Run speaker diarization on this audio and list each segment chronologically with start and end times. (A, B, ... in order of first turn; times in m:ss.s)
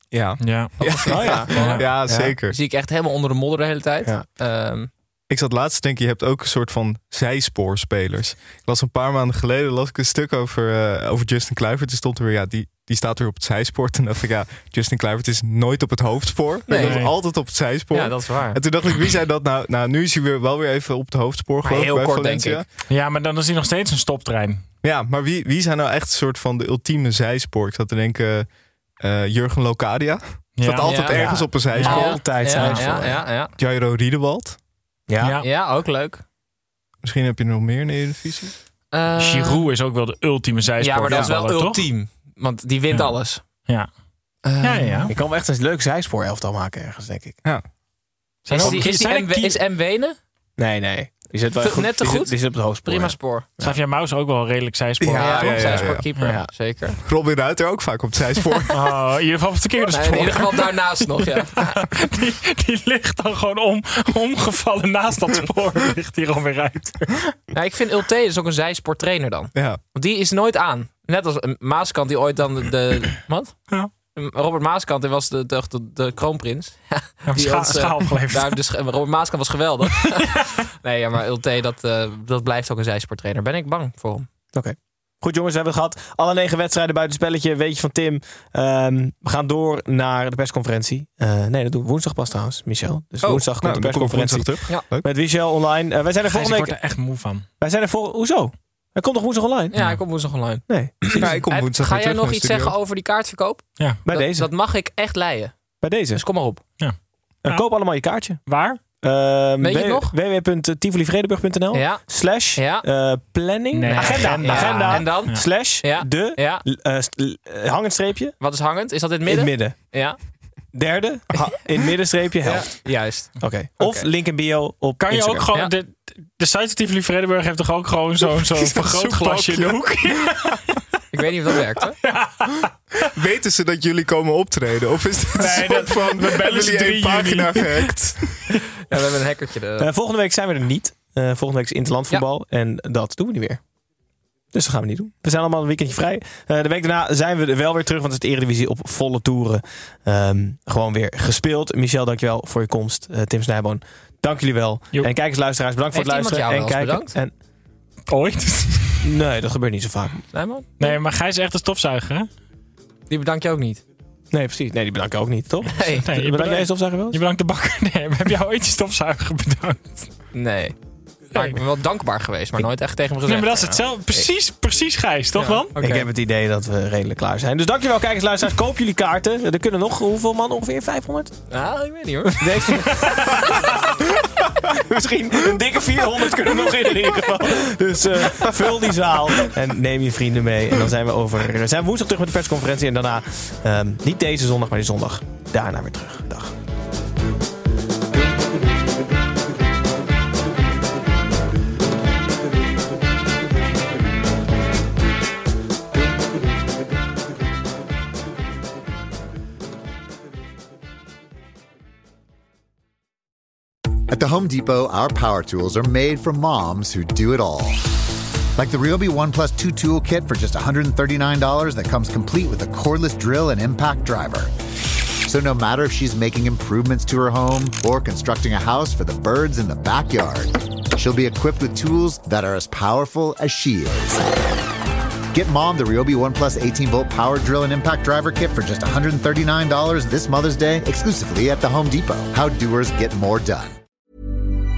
0:00.1-0:02.6 A
0:00.4-0:00.7 B
0:00.8-0:04.9 C
0:01.0-0:02.4 D
0:01.3-0:01.8 B
0:05.3-0:22.7 A
0:16.7-0:17.4 C
0:16.7-0:17.1 B
0:17.9-0:18.6 C
0:21.6-0:22.6 C
0:22.9-0:24.6 B
0:24.8-0:32.4 A
0:30.6-0:31.2 B
0:30.8-0:33.5 C
0:30.9-0:33.2 D
0:31.7-0:32.8 B
0:33.5-0:34.6 A
0:35.1-0:35.4 D
0:35.4-0:36.2 C
0:37.0-0:38.6 A
0:38.9-0:39.6 C
0:39.2-0:41.9 B
0:40.8-0:43.4 C
0:42.9-0:43.9 B
0:44.4-0:45.1 C
0:44.6-0:45.1 B
0:45.1-0:47.4 D
0:48.4-0:49.6 B
0:48.5-0:50.2 C
0:50.6-0:53.8 D
0:51.6-0:53.5 C
0:53.6-0:56.4 B
0:55.0-0:56.0 A
0:55.2-0:57.0 C
0:56.2-0:56.5 D
0:57.0-0:58.9 A
0:58.7-1:07.3 B
0:59.9-1:01.7 C
1:07.5-1:24.3 C
1:09.5-1:09.8 A
1:17.3-1:18.6 B
1:24.5-1:36.8 D
1:33.2-1:35.1 A
1:36.2-1:37.4 B
1:37.6-1:39.7 D
1:39.7-1:45.6 C
1:39.7-1:40.0 B
1:40.7-1:41.3 D
1:41.2-1:42.7 A
1:44.0-1:44.5 D
1:45.8-1:46.2 D
1:46.1-1:46.6 C
1:46.8-1:47.6 B
1:47.4-1:48.4 D
1:48.4-1:48.8 B
1:49.0-1:58.4 D
1:49.6-1:50.1 C
1:51.7-1:52.8 C
1:53.7-1:55.4 B
1:53.8-1:56.6 C
1:58.4-2:00.2 C
1:59.2-1:59.9 D
2:00.7-2:05.5 D
2:02.4-2:04.1 C
2:05.0-2:10.8 B
2:08.5-2:10.0 A
2:11.1-2:12.0 C
2:12.0-2:13.1 B
2:13.1-2:18.4 A
2:15.4-2:17.9 B
2:18.9-2:19.9 C
2:19.8-2:23.6 D
2:24.5-2:37.3 D
2:35.9-2:37.1 C
2:38.1-2:39.0 B
2:39.0-2:40.2 D
2:40.3-2:41.0 C
2:40.8-2:42.3 B
2:43.1-2:43.8 C
2:44.3-2:47.2 D
2:45.7-2:46.0 C
2:46.1-2:50.1 B
2:50.3-2:50.8 C
2:51.3-2:54.3 C
2:53.2-2:55.7 B
2:55.4-2:56.1 C
2:55.8-3:01.3 D
3:01.5-3:03.4 C
3:02.4-3:03.4 D
3:03.1-3:03.4 B
3:04.7-3:16.5 D
3:34.1-3:37.8 E
3:38.6-3:44.5 E
3:45.2-3:54.2 E
3:55.3-4:03.7 E